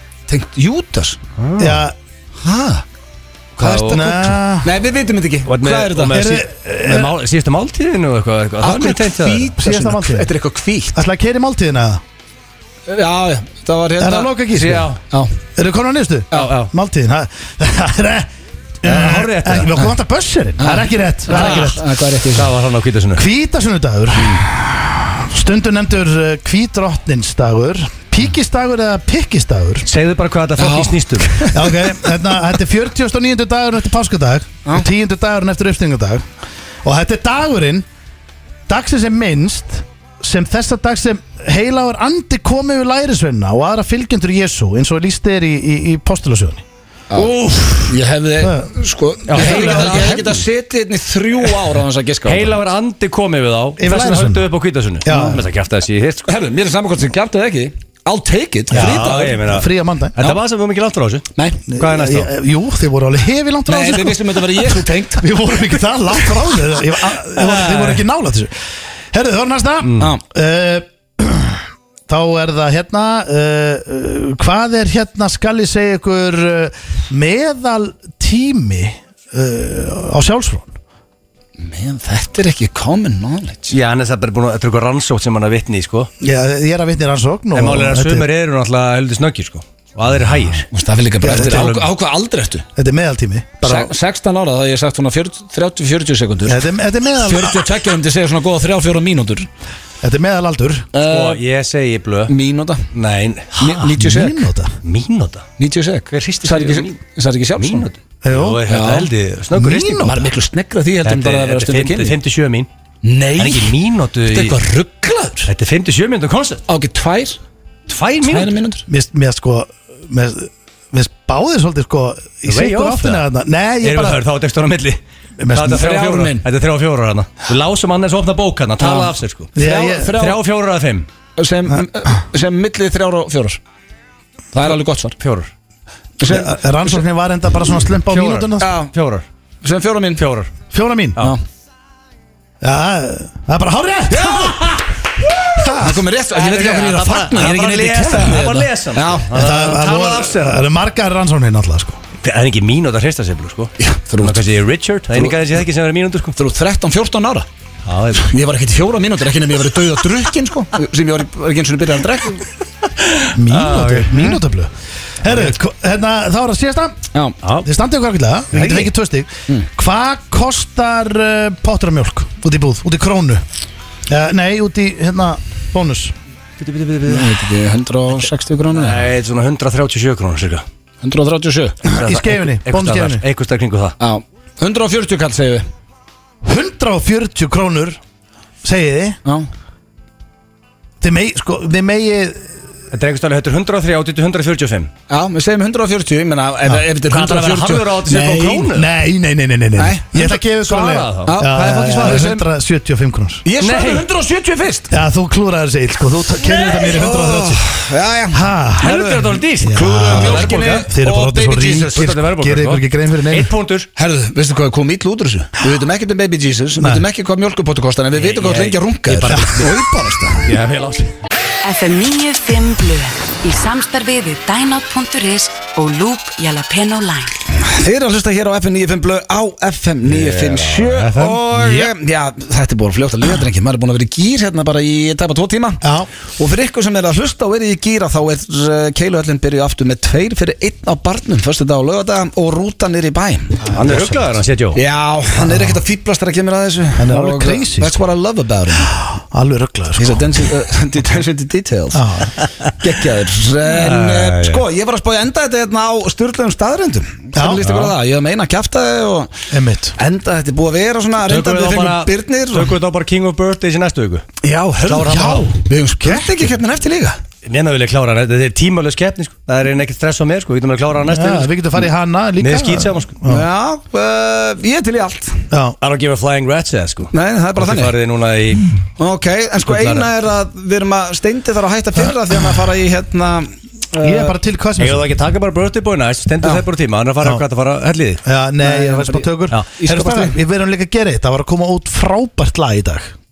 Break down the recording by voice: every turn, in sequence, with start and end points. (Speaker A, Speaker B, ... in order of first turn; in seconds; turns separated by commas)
Speaker A: 0.3-1.2, Speaker B: 1.4-1.8, Speaker C: 1.6-1.9, Speaker A: 2.4-2.9, Speaker B: 3.6-4.2, Speaker C: 3.6-4.7, Speaker A: 3.6-6.2, Speaker B: 5.5-9.5, Speaker C: 6.0-7.2, Speaker A: 8.6-11.0, Speaker C: 9.6-10.3, Speaker C: 10.9-12.0, Speaker A: 12.9-14.4, Speaker C: 14.0-14.9, Speaker B: 14.5-15.0, Speaker A: 15.1-15.4, Speaker C: 15.6-18.3, Speaker B: 16.3-16.7, Speaker C: 18.8-21.9, Speaker B: 18.9-19.9, Speaker A: 20.6-22.5, Speaker B: 21.3-23.3, Speaker C: 23.1-29.9, Speaker B: 29.9-31.4, Speaker A: 30.6-31.7, Speaker C: 31.5-36.3, Speaker C: 36.8-37.9, Speaker C: 38.7-46.6, Speaker B: 47.1-48.0, Speaker A: 47.9-52.6, Speaker C: 48.4-50.3, Speaker B: 49.3-50.4, Speaker B: 52.2-56.3, Speaker C: 53.8-54.5, Speaker C: 55.0-55.4, Speaker A: 55.1-55.4, Speaker A: 56.2-59.4, Speaker C: 58.7-60.2, Speaker B: 58.7-62.3, Speaker C: 61.7-68.5, Speaker A: 63.7-65.3, Speaker B: 67.4-68.0, Speaker C: 69.1-80.8, Speaker B: 69.8-70.1, Speaker A: 81.6-83.8, Speaker B: 83.7-86.1, Speaker C: 86.2-88.3, Speaker B: 87.5-90.7, Speaker A: 90.7-92.7, Speaker C: 91.2-91.9, Speaker C: 92.8-93.9, Speaker A: 93.6-96.6, Speaker C: 96.5-97.7, Speaker A: 97.2-99.5, Speaker C: 100.0-100.9, Speaker A: 100.9-101.4, Speaker B: 101.1-102.3, Speaker A: 102.3-102.9, Speaker B: 102.9-103.9, Speaker A: 103.5-104.4, Speaker C: 103.9-104.8, Speaker B: 104.8-105.5, Speaker A: 105.6-107.9, Speaker B: 106.1-107.0, Speaker B: 107.6-110.2, Speaker C: 108.2-108.7, Speaker A: 108.7-109.1, Speaker C: 109.5-110.2, Speaker A: 110.0-112.2, Speaker B: 111.0-112.7, Speaker A: 113.0-113.8, Speaker B: 113.4-114.6, Speaker A: 114.3-115.5, Speaker B: 115.5-116.6, Speaker A: 116.7-117.4, Speaker B: 117.9-118.6, Speaker A: 118.2-118.8, Speaker C: 118.9-124.2, Speaker B: 122.5-123.3, Speaker B: 123.8-125.0, Speaker C: 125.4-125.9, Speaker B: 125.5-129.6, Speaker A: 125.7-126.5, Speaker A: 128.8-130.4, Speaker C: 129.6-130.2, Speaker B: 130.1-131.1, Speaker A: 131.4-133.6, Speaker A: 134.5-135.2, Speaker B: 135.2-135.5, Speaker A: 136.2-137.0, Speaker C: 136.2-138.7, Speaker B: 138.1-139.2, Speaker A: 138.6-138.9, Speaker A: 139.6-140.2, Speaker B: 140.2-140.5, Speaker C: 140.7-141.3, Speaker C: 142.6-144.8, Speaker B: 144.1-145.7, Speaker C: 145.6-146.0, Speaker A: 145.7-149.4, Speaker B: 146.3-150.6, Speaker C: 149.3-152.0, Speaker B: 152.2-156.3, Speaker A: 153.8-154.4, Speaker A: 156.3-157.5, Speaker B: 157.9-158.3, Speaker A: 158.2-162.4, Speaker B: 163.0-164.1, Speaker C: 163.3-167.0, Speaker B: 167.4-167.7, Speaker C: 167.6-173.4, Speaker B: 168.5-168.9, Speaker C: 174.1-176.1, Speaker B: 176.6-177.4, Speaker A: 177.1-179.1, Speaker B: 178.7-180.6, Speaker A: 181.0-181.8, Speaker C: 181.8-183.2, Speaker B: 182.0-184.0, Speaker A: 184.0-185.6, Speaker C: 186.4-188.0, Speaker C: 188.6-189.2, Speaker C: 191.0-192.5, Speaker B: 192.9-194.9, Speaker A: 195.1-198.7, Speaker B: 197.1-198.9, Speaker C: 198.7-203.4, Speaker A: 199.8-200.3, Speaker B: 200.2-202.3, Speaker A: 201.2-202.4, Speaker A: 203.4-204.9, Speaker B: 203.6-204.1, Speaker C: 204.9-207.6, Speaker A: 206.4-208.5, Speaker C: 208.3-213.5, Speaker B: 208.8-213.9, Speaker A: 209.7-211.2, Speaker A: 214.0-220.5, Speaker B: 218.2-219.8, Speaker B: 220.4-221.1, Speaker D: 221.6-227.4, Speaker A: 227.5-243.8, Speaker B: 230.1-231.9, Speaker C: 235.8-236.1, Speaker B: 243.7-244.8, Speaker C: 243.8-244.2, Speaker A: 244.7-249.0, Speaker C: 245.4-245.8, Speaker C: 247.0-248.0, Speaker C: 248.8-250.4, Speaker A: 250.0-252.1, Speaker C: 251.9-252.3, Speaker A: 252.8-262.8, Speaker B: 253.7-254.6, Speaker C: 257.3-257.6, Speaker B: 257.6-258.0, Speaker C: 259.5-260.0, Speaker B: 261.2-264.2, Speaker A: 264.4-267.2, Speaker B: 264.9-265.5, Speaker C: 265.1-266.4, Speaker B: 267.4-271.5, Speaker C: 271.1-273.4, Speaker B: 272.4-273.1, Speaker A: 273.2-275.5, Speaker C: 275.5-275.8, Speaker B: 275.8-278.8, Speaker A: 277.1-277.9, Speaker A: 279.0-284.4, Speaker B: 279.6-280.1, Speaker C: 284.0-285.1, Speaker B: 284.8-288.2, Speaker C: 288.2-293.1, Speaker A: 288.6-290.4